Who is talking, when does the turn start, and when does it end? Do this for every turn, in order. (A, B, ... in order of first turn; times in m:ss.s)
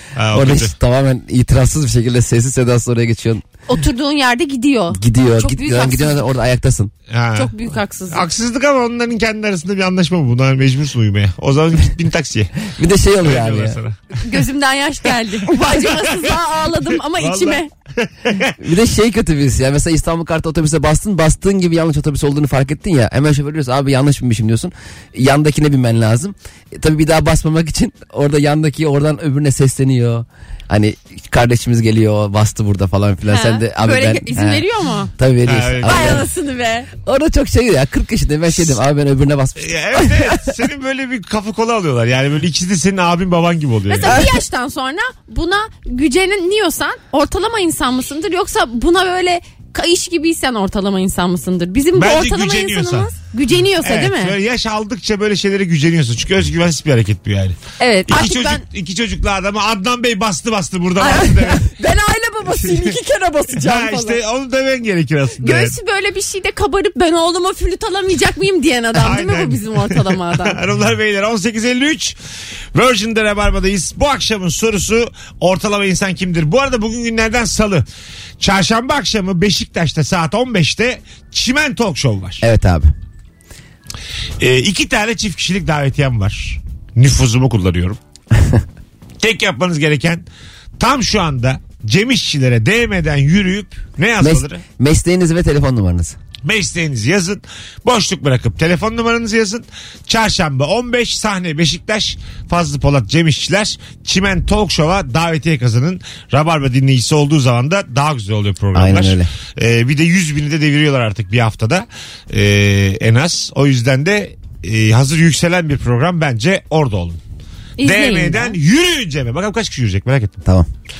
0:00.2-0:00.7 A
0:00.3-0:03.4 B
0:03.7-0:06.2 C
0:04.9-0:06.9 B
0:07.1-0:07.6 A
0:07.4-0:08.2 C
0:08.1-0:12.6 A
0:12.7-0:13.8 B
0:13.2-0:14.0 A
0:14.1-0:17.7 C
0:15.5-0:16.4 A
0:17.2-0:18.5 A
0:18.6-0:36.3 B
0:33.3-0:35.1 C
0:35.5-0:36.2 A
0:35.8-0:36.9 C
0:37.0-0:40.5 B
0:39.6-0:44.2 A
0:43.9-0:54.4 C
0:52.0-0:53.2 A
0:53.7-1:01.7 A
0:57.8-0:58.6 C
1:01.0-1:04.2 C
1:02.5-1:03.0 A
1:03.6-1:05.8 A
1:05.4-1:10.6 C
1:09.0-1:12.2 A
1:12.7-1:17.8 A
1:18.4-1:22.4 A
1:22.4-1:22.9 B
1:24.4-1:28.0 A
1:28.3-1:28.6 B
1:29.2-1:30.2 A
1:30.8-1:34.6 A
1:34.2-1:36.2 B
1:36.4-1:57.2 A
1:48.8-1:49.3 B
1:57.8-1:58.6 C
1:57.8-2:00.4 A